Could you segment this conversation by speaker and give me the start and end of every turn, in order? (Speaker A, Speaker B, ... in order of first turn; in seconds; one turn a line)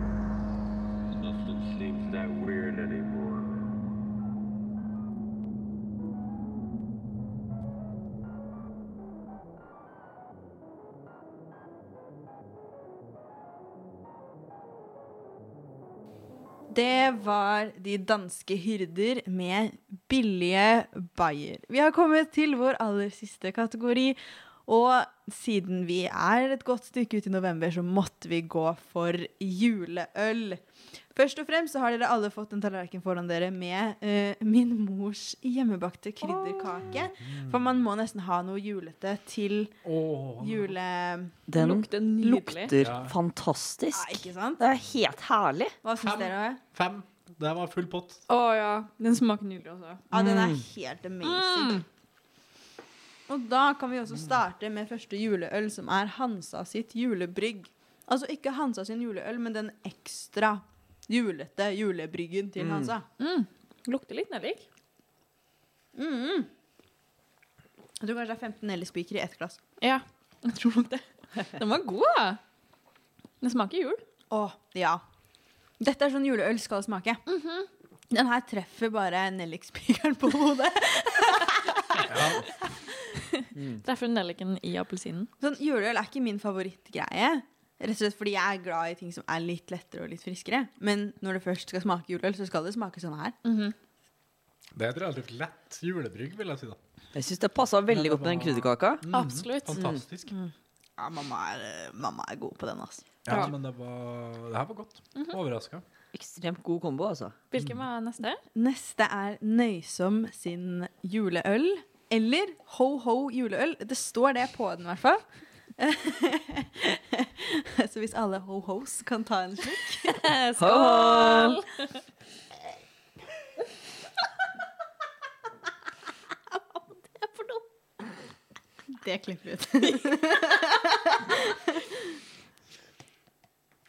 Speaker A: 1.1-3.5
Speaker B: 16.7-30.6
Speaker B: 31.1-39.7
Speaker C: 36.2-36.7
Speaker D: 37.2-37.6
Speaker D: 39.8-40.7
Speaker B: 40.4-41.3
Speaker E: 41.5-45.8
Speaker C: 41.5-42.7
Speaker D: 42.7-43.1
Speaker B: 43.9-44.6
Speaker B: 45.8-46.6
Speaker D: 46.0-48.2
Speaker C: 48.3-50.0
Speaker B: 50.1-51.8
Speaker E: 50.1-50.6
Speaker C: 51.2-51.8
Speaker B: 53.3-63.0
Speaker E: 62.6-62.9
Speaker C: 63.2-64.7
Speaker B: 65.9-66.5
Speaker B: 68.0-69.6
Speaker C: 69.8-72.4
Speaker C: 73.4-74.0
Speaker B: 74.3-75.0
Speaker B: 75.8-77.2
Speaker C: 77.3-77.7
Speaker B: 78.1-82.0
Speaker D: 82.0-82.4
Speaker C: 83.4-85.3
Speaker E: 83.5-83.8
Speaker B: 85.4-93.3
Speaker C: 93.4-93.7
Speaker D: 94.7-96.8
Speaker E: 97.1-99.0
Speaker D: 97.9-100.3
Speaker C: 99.1-99.8
Speaker E: 99.7-100.0
Speaker B: 101.0-103.0
Speaker D: 103.2-105.8
Speaker E: 106.1-107.3
Speaker C: 107.5-108.4
Speaker D: 107.5-107.8
Speaker B: 108.5-115.2
Speaker B: 115.8-120.2
Speaker C: 120.1-121.7
Speaker E: 120.6-121.6
Speaker C: 127.0-127.6
Speaker B: 128.9-131.8